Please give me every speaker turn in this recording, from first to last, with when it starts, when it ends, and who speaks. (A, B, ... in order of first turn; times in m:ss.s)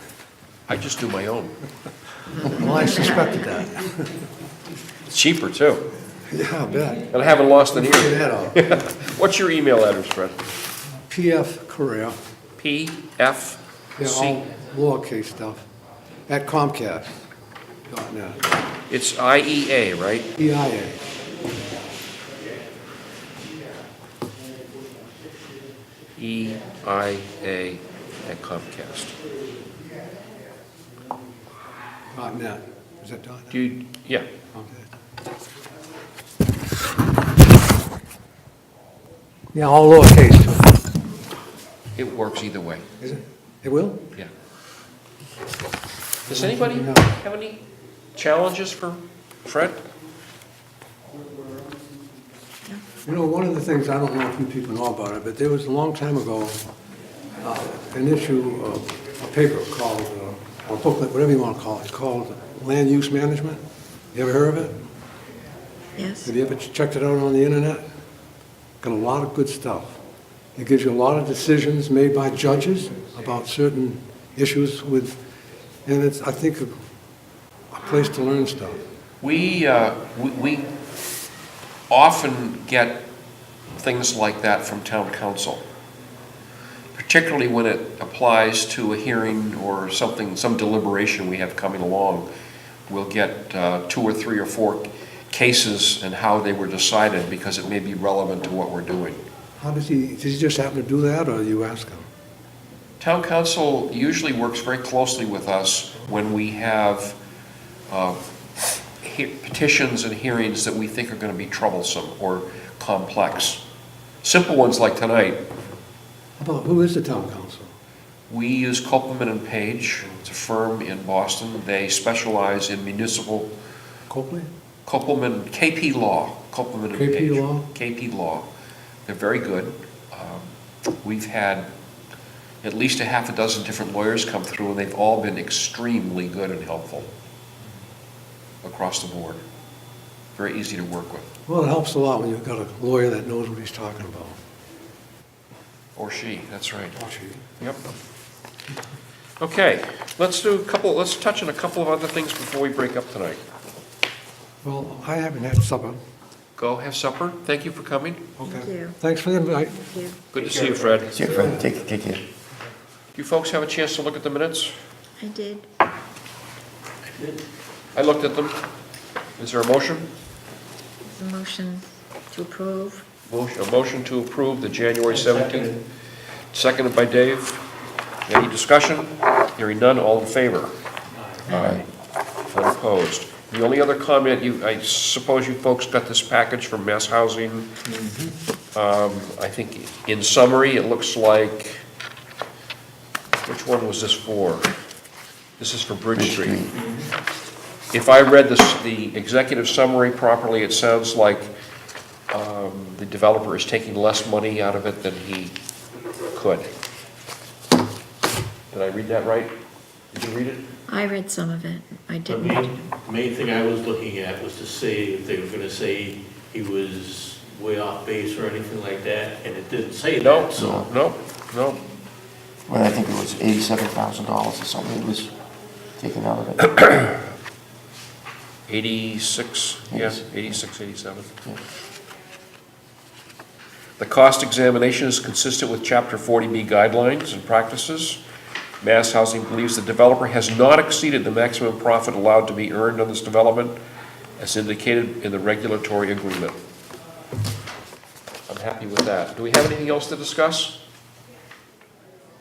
0:00.7-0:01.5 A
0:02.4-0:04.1 B
0:02.4-0:03.2 C
0:05.1-0:05.8 A
0:06.3-0:07.1 B
0:07.1-0:10.4 A
0:07.7-0:08.9 B
0:11.1-0:12.2 B
0:12.6-0:14.4 A
0:14.0-0:15.6 B
0:16.3-0:17.2 B
0:17.9-0:18.4 B
0:18.9-0:20.3 A
0:20.4-0:21.0 B
0:26.2-0:29.1 A
0:32.1-0:33.6 B
0:33.5-0:34.2 A
0:34.5-0:34.9 B
0:39.5-0:40.7 B
0:42.0-0:42.8 A
0:43.0-0:44.0 B
0:46.2-0:47.6 A
0:46.3-0:47.1 B
0:48.1-0:49.8 A
0:53.0-0:56.6 B
0:57.4-1:03.6 B
1:04.1-1:04.8 B
1:06.0-1:06.3 C
1:06.2-1:07.8 B
1:08.8-1:10.0 B
1:10.6-1:15.2 B
1:15.8-1:16.7 B
1:17.7-1:18.8 B
1:19.2-1:20.7 A
1:21.9-1:23.0 A
1:23.7-1:25.6 A
1:26.9-1:32.3 A
1:32.9-1:39.2 A
1:39.6-1:42.1 B
1:43.0-1:47.2 A
1:47.9-1:53.6 A
1:54.2-1:55.4 A
1:56.4-1:57.7 B
1:58.3-2:03.5 A
2:04.1-2:04.5 B
2:04.8-2:08.5 A
2:06.9-2:07.6 B
2:09.0-2:10.5 A
2:11.0-2:11.7 A
2:12.6-2:17.0 A
2:18.6-2:19.4 A
2:20.4-2:21.3 A
2:21.5-2:24.4 B
2:26.0-2:27.0 A
2:27.0-2:27.4 B
2:29.4-2:33.4 A
2:34.6-2:36.0 B
2:36.6-2:38.2 A
2:38.4-2:39.8 B
2:38.4-2:39.0 C
2:39.8-2:40.2 C
2:40.3-2:41.1 A
2:40.3-2:41.5 D
2:41.1-2:42.2 E
2:43.1-2:44.7 A
2:45.2-2:45.7 C
2:47.0-2:47.4 D
2:47.9-2:48.6 A
2:49.4-2:50.1 A
2:51.2-2:53.0 C
2:53.3-2:55.8 A
2:55.2-2:55.7 D
2:56.5-2:57.6 A
2:58.3-3:00.7 A
3:01.3-3:01.7 D
3:01.5-3:01.8 E
3:01.5-3:01.8 A
3:02.5-3:07.7 A
3:08.7-3:11.8 A
3:13.4-3:14.7 A
3:15.6-3:16.7 A
3:16.2-3:16.7 E
3:17.9-3:21.5 A
3:22.3-3:25.6 A
3:26.3-3:26.7 A
3:28.7-3:29.5 A
3:30.1-3:30.7 A
3:30.9-3:32.9 C
3:32.2-3:40.8 D
3:40.2-3:41.8 A
3:40.6-3:40.9 E
3:42.7-3:45.3 E
3:46.0-3:47.2 E
3:48.7-3:51.3 A
3:49.9-3:50.4 E
3:54.0-3:58.2 A
3:58.8-4:03.8 A
4:04.4-4:06.6 A
4:08.5-4:10.8 A